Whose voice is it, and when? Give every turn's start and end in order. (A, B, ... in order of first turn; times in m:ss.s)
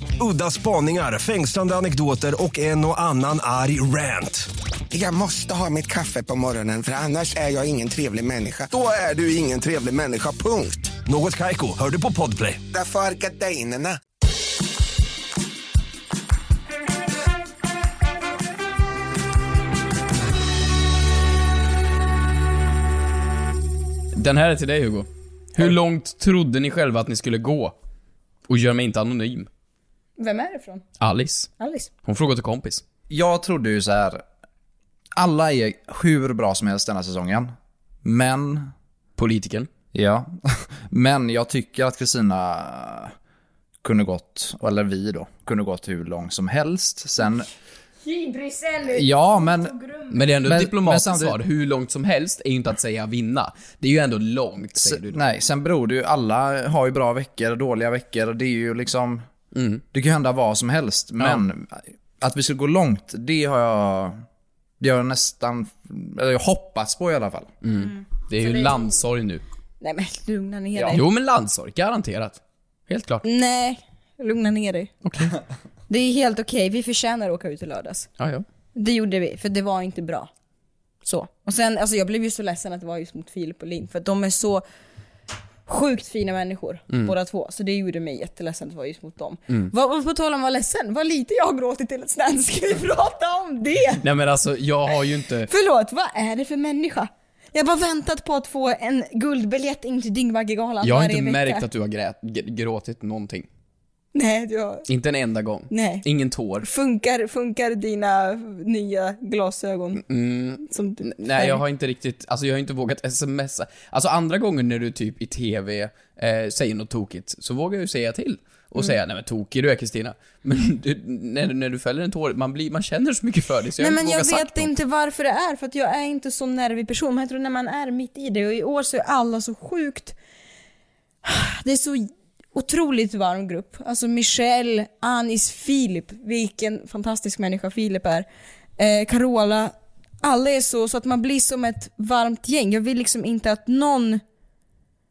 0:00.2-0:04.5 A
0:04.9-0:10.9 B
0:11.0-0:12.6 A
0:12.7-0:14.0 B
0:24.1-0:27.7 C
0:28.5-0:29.5 C
0:30.2-0:30.8 D
0:31.0-0:31.5 C
0:31.6-0:31.9 D
0:32.0-0:32.8 C
0:33.1-0:34.2 E
0:35.2-0:37.5 E
0:38.0-0:38.7 E
0:39.2-0:39.7 C
0:39.9-0:43.1 E
0:43.8-0:47.5 E
0:48.0-0:50.3 D
0:48.9-0:49.8 E
0:50.1-0:55.2 C
0:50.4-0:51.4 E
0:54.8-0:59.3 E
0:59.5-0:59.8 C
0:59.9-1:04.2 E
1:04.8-1:07.5 E
1:07.6-1:09.4 C
1:07.7-1:09.0 D
1:09.8-1:11.0 D
1:10.7-1:11.0 E
1:10.9-1:13.2 C
1:13.2-1:14.9 D
1:15.0-1:15.4 C
1:15.9-1:18.1 D
1:18.2-1:18.4 C
1:18.8-1:20.3 D
1:21.0-1:24.6 D
1:25.7-1:34.0 D
1:34.0-1:35.5 C
1:35.5-1:41.6 D
1:40.8-1:43.5 C
1:44.1-1:44.9 D
1:44.9-1:46.7 C
1:45.7-1:46.0 D
1:46.6-1:50.0 D
1:50.0-2:04.7 C
1:50.7-1:51.6 D
2:03.8-2:10.2 D
2:11.2-2:18.3 D
2:18.8-2:24.2 D